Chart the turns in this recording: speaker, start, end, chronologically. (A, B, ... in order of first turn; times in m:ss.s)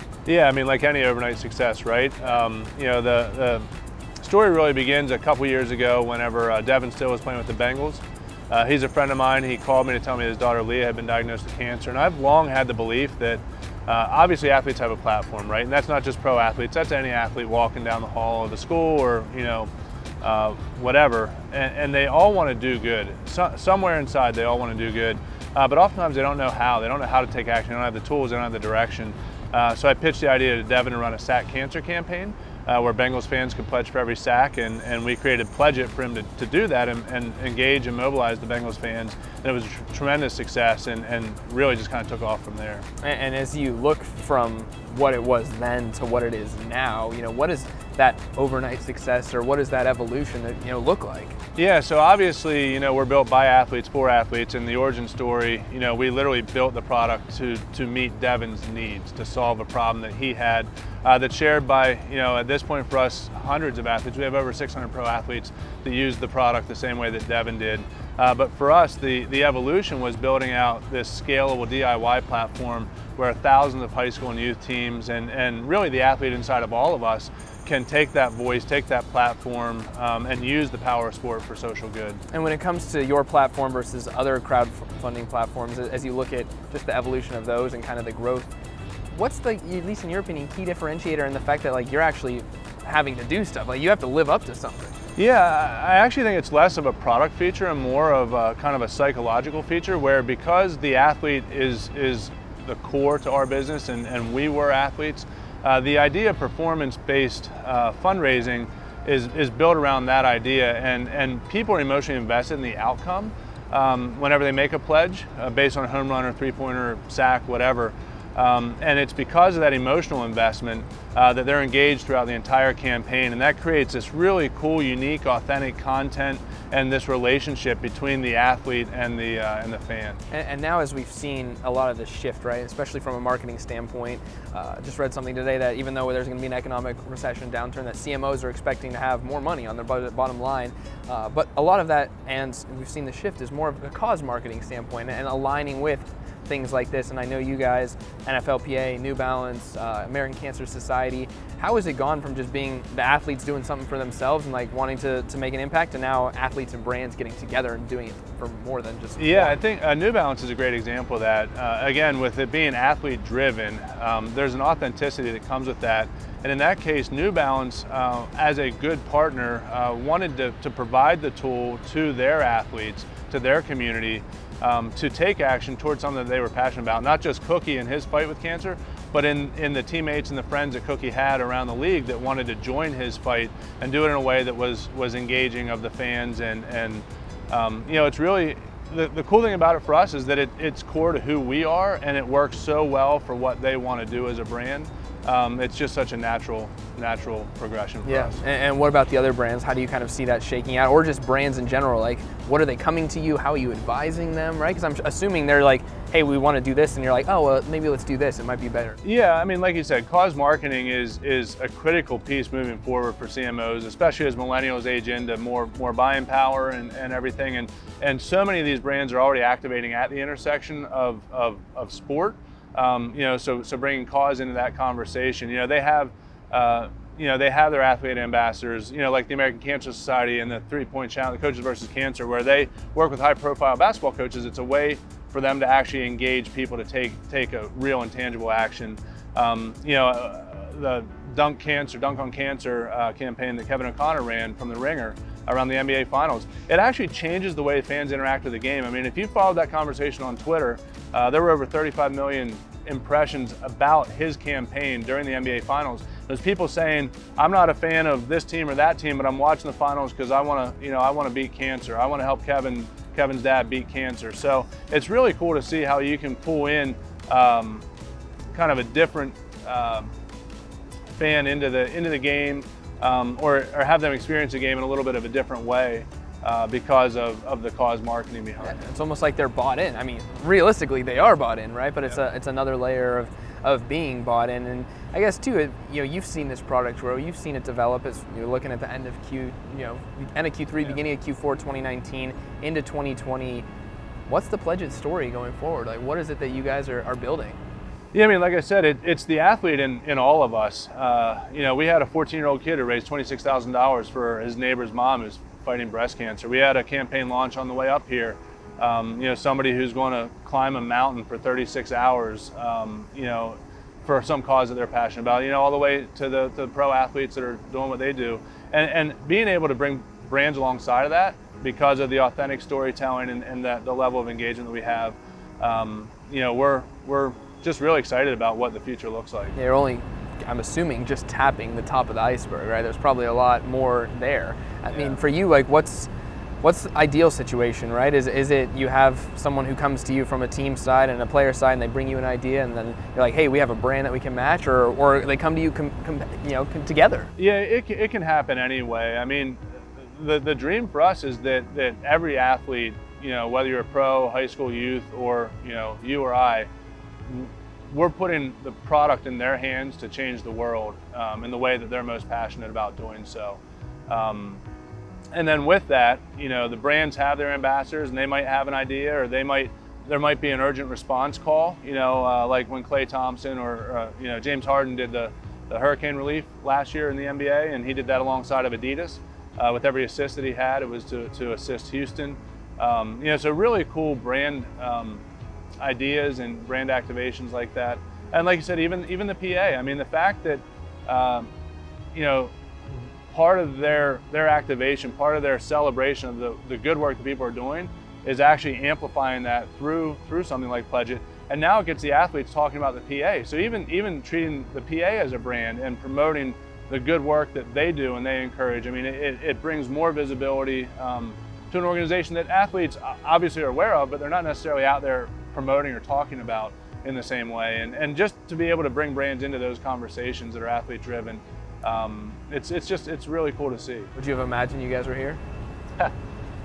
0:00.3-0:03.7 A
0:04.2-0:19.7 A
0:20.2-0:42.8 A
0:43.0-0:51.4 B
0:51.6-1:22.2 A
1:22.3-1:28.5 B
1:29.1-1:35.0 B
1:35.2-2:10.2 A
2:10.3-2:39.6 B
2:39.2-3:18.4 A
3:18.1-3:29.0 B
3:29.0-4:27.8 A
4:28.5-4:30.1 A
4:31.2-4:38.8 A
4:38.6-4:53.7 B
4:54.3-4:57.6 B
4:58.1-5:29.6 A
5:29.6-5:36.1 B
5:34.9-5:35.2 A
5:36.6-5:47.3 B
5:47.4-5:56.7 A
5:57.3-6:04.6 A
6:05.3-6:25.2 A
6:25.8-6:31.5 A
6:32.1-6:32.5 A
6:33.3-7:04.1 A
7:04.2-7:05.4 B